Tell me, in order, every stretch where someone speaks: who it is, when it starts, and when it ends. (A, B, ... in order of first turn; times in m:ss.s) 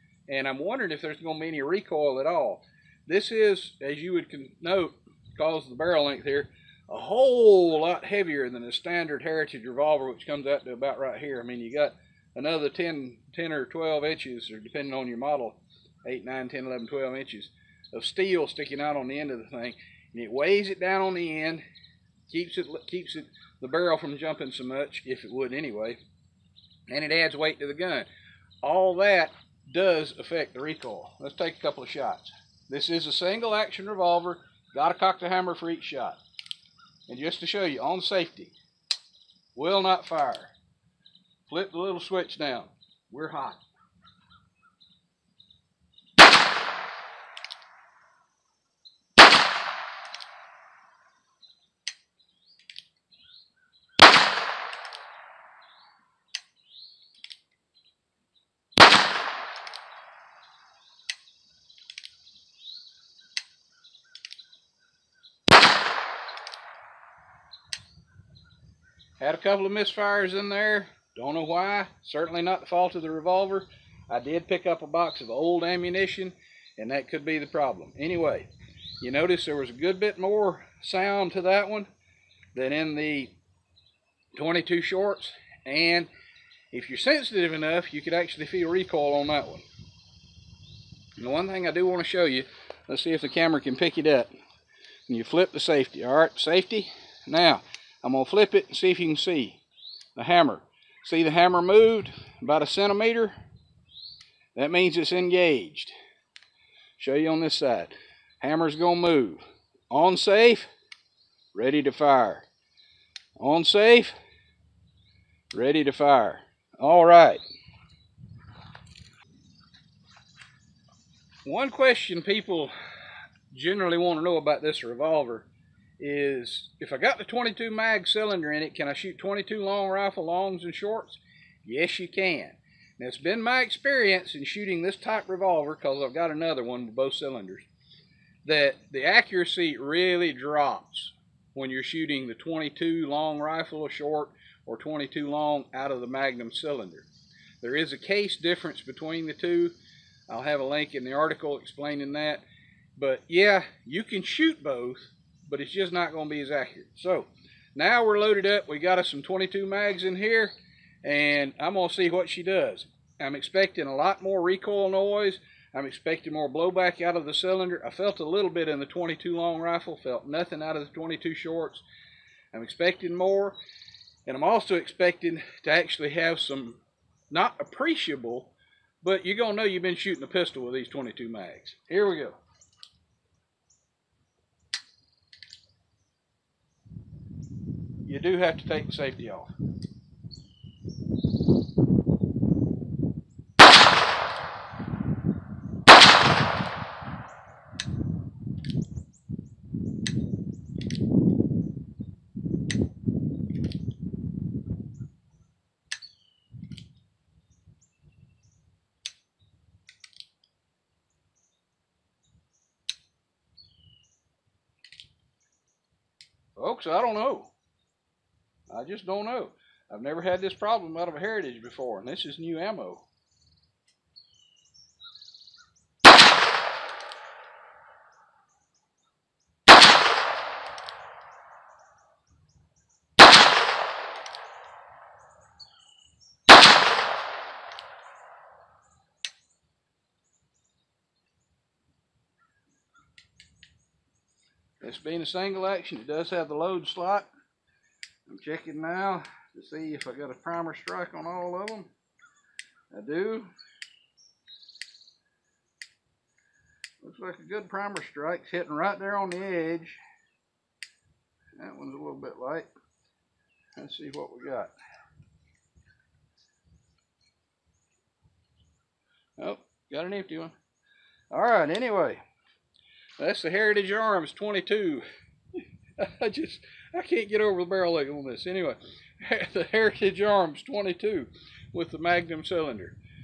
0:00.3-0:21.6 A
0:22.3-0:26.0 A
0:26.9-0:28.1 A
0:28.6-0:36.2 A
0:37.1-0:38.6 A
0:39.6-0:40.5 A
0:41.5-0:43.6 A
1:09.2-1:18.5 A
1:19.0-1:21.9 A
1:22.5-1:23.3 A
1:24.3-1:26.1 A
1:26.7-1:29.6 A
1:31.2-1:34.3 A
1:35.1-1:39.6 A
1:40.2-1:43.4 A
1:44.6-1:45.9 A
1:47.0-1:50.7 A
1:51.5-1:52.5 A
1:53.4-1:54.2 A
1:55.5-1:57.4 A
2:01.4-2:02.7 A
2:03.5-2:05.5 A
2:06.0-2:17.7 A
2:18.4-2:27.1 A
2:27.6-2:29.8 A
2:30.3-2:32.4 A
2:33.0-2:51.8 A
2:52.5-2:53.6 A
2:54.3-3:02.4 A
3:08.0-3:09.5 A
3:36.6-3:37.5 A
3:38.7-3:43.1 A
4:04.8-4:07.3 A
4:08.3-4:11.9 A
4:12.9-4:13.5 A
4:17.0-4:20.0 A
4:21.6-4:22.7 A
4:23.8-4:24.7 A
4:29.4-4:30.6 A
4:31.3-4:32.2 A
4:33.2-4:35.0 A
4:35.6-4:43.0 A